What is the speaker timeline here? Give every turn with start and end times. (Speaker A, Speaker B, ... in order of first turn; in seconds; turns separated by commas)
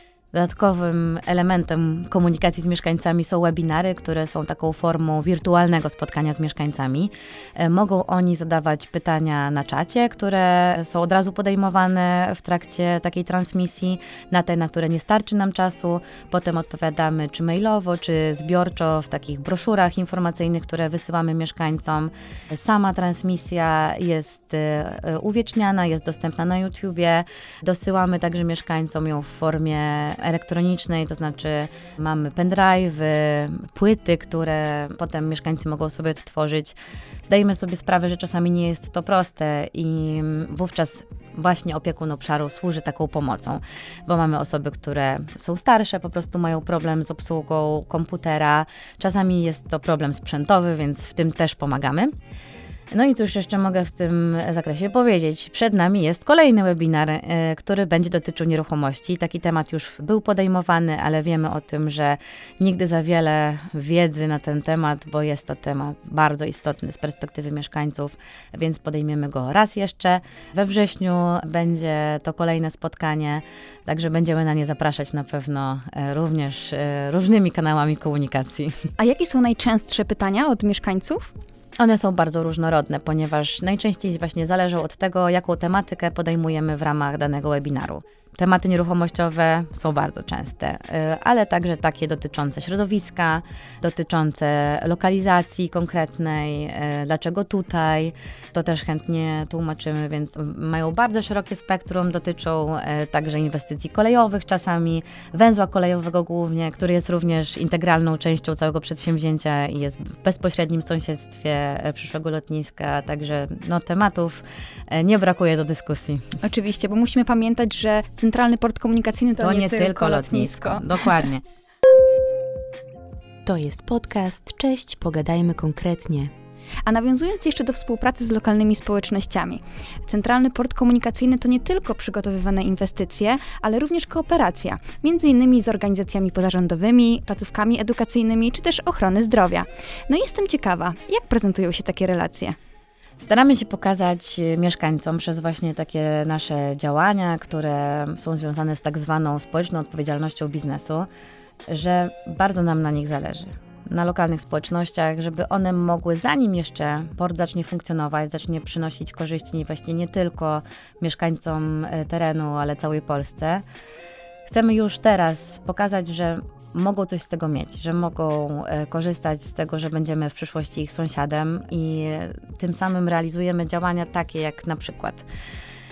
Speaker A: 0.3-52.1, Speaker A: 52.9-78.8, Speaker B: 79.0-81.3, Speaker A: 81.8-116.3, Speaker B: 116.4-121.1, Speaker A: 119.4-121.4, Speaker C: 123.5-126.3, Speaker B: 126.8-142.6, Speaker A: 143.2-151.1, Speaker A: 151.7-163.6, Speaker A: 164.5-175.3